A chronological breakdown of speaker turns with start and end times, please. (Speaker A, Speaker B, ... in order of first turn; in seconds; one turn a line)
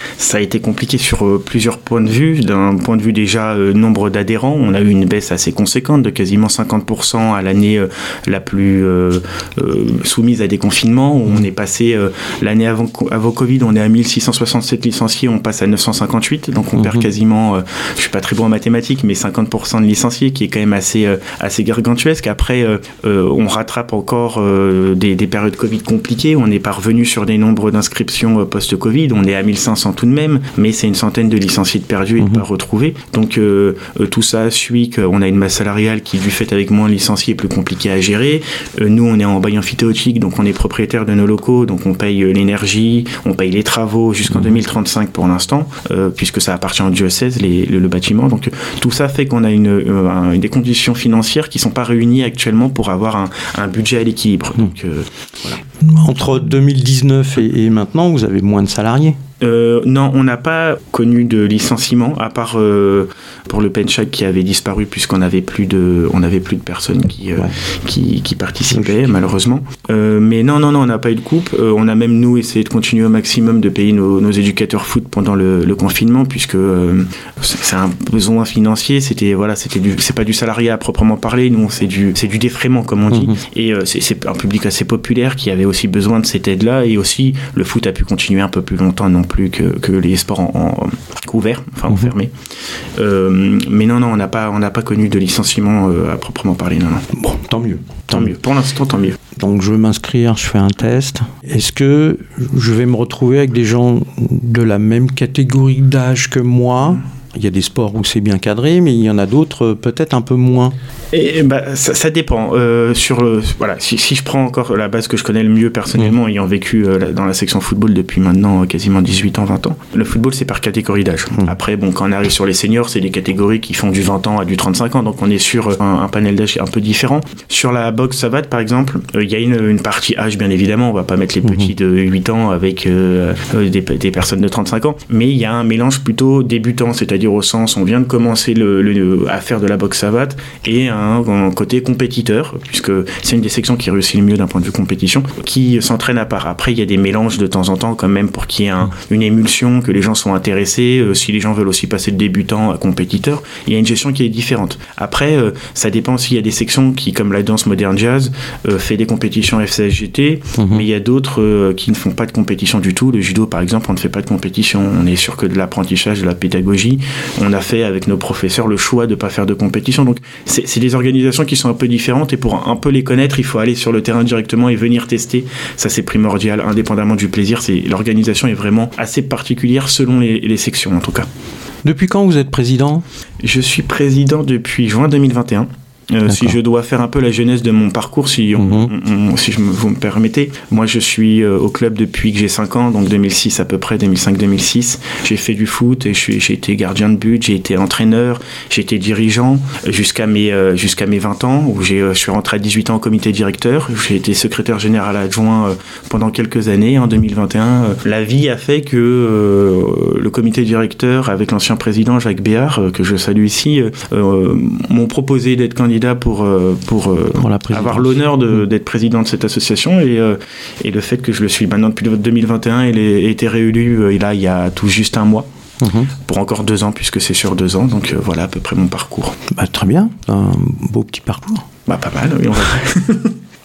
Speaker A: 0.2-55.6
Speaker B: 16.8-17.0
Speaker B: 55.8-59.2
Speaker A: 59.4-92.3
Speaker B: 68.7-69.1
Speaker B: 83.1-83.4
Speaker A: 92.9-97.0
Speaker B: 97.1-98.3
Speaker A: 98.1-99.2
Speaker B: 99.3-110.7
Speaker A: 111.1-181.3
Speaker B: 131.4-131.7
Speaker B: 160.6-160.8
Speaker B: 181.8-183.0
Speaker A: 183.4-225.5
Speaker B: 186.3-186.5
Speaker B: 188.6-188.9
Speaker B: 217.4-218.2
Speaker B: 225.8-226.1
Speaker A: 226.2-229.4
Speaker B: 229.5-231.7
Speaker A: 231.9-233.4